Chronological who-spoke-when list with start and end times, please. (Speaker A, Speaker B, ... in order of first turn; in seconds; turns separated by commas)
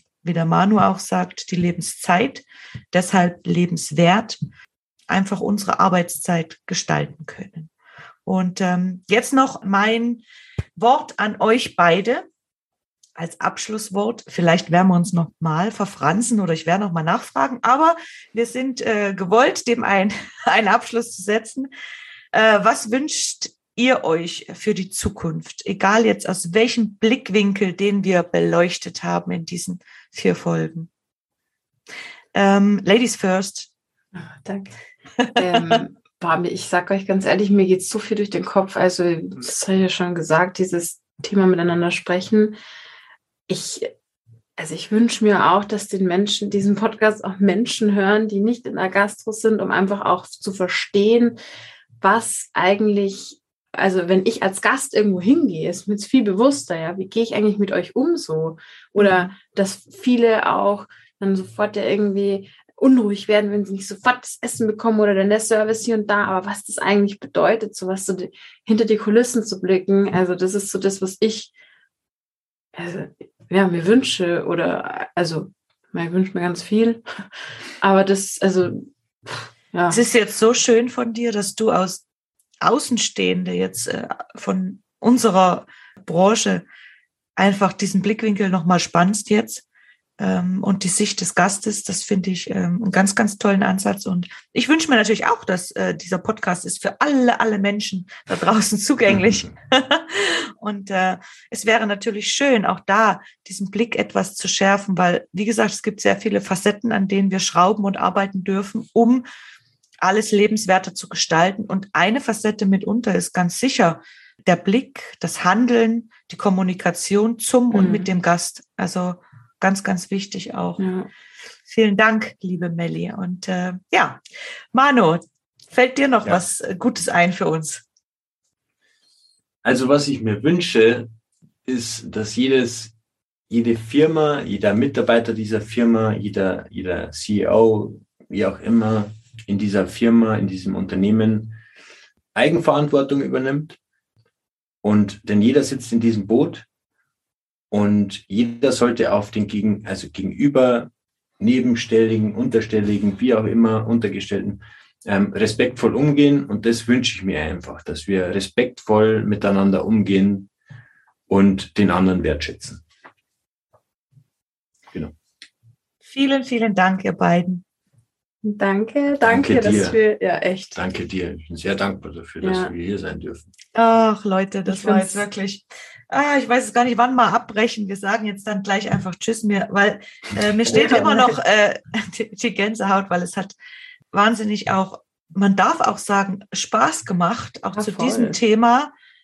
Speaker A: 0.2-4.4, Speaker A: 5.1-7.7, Speaker A: 8.2-10.2, Speaker A: 10.8-12.2, Speaker A: 13.2-21.7, Speaker A: 22.3-30.9, Speaker A: 32.3-33.7, Speaker B: 34.1-34.7, Speaker A: 35.2-35.7, Speaker B: 35.2-42.5, Speaker B: 43.5-43.9, Speaker B: 44.6-51.4, Speaker B: 52.0-71.5, Speaker A: 59.0-59.3, Speaker B: 72.7-77.0, Speaker B: 77.8-80.0, Speaker A: 79.9-82.0, Speaker A: 82.6-86.6, Speaker A: 87.4-89.6, Speaker A: 90.2-109.2, Speaker A: 110.0-120.8, Speaker B: 117.7-118.1, Speaker B: 120.8-121.1, Speaker A: 121.7-124.2, Speaker A: 124.7-127.8, Speaker C: 129.6-131.1, Speaker C: 131.6-132.9, Speaker C: 133.5-141.6, Speaker C: 142.3-143.8, Speaker C: 144.8-146.7, Speaker C: 147.7-160.5, Speaker C: 161.3-162.8, Speaker A: 166.1-167.6, Speaker B: 168.4-170.8, Speaker C: 169.2-170.0, Speaker C: 170.8-173.5, Speaker B: 172.4-172.7, Speaker A: 173.7-183.5, Speaker B: 174.7-175.2, Speaker B: 180.7-181.3, Speaker A: 184.1-188.9, Speaker B: 187.8-188.4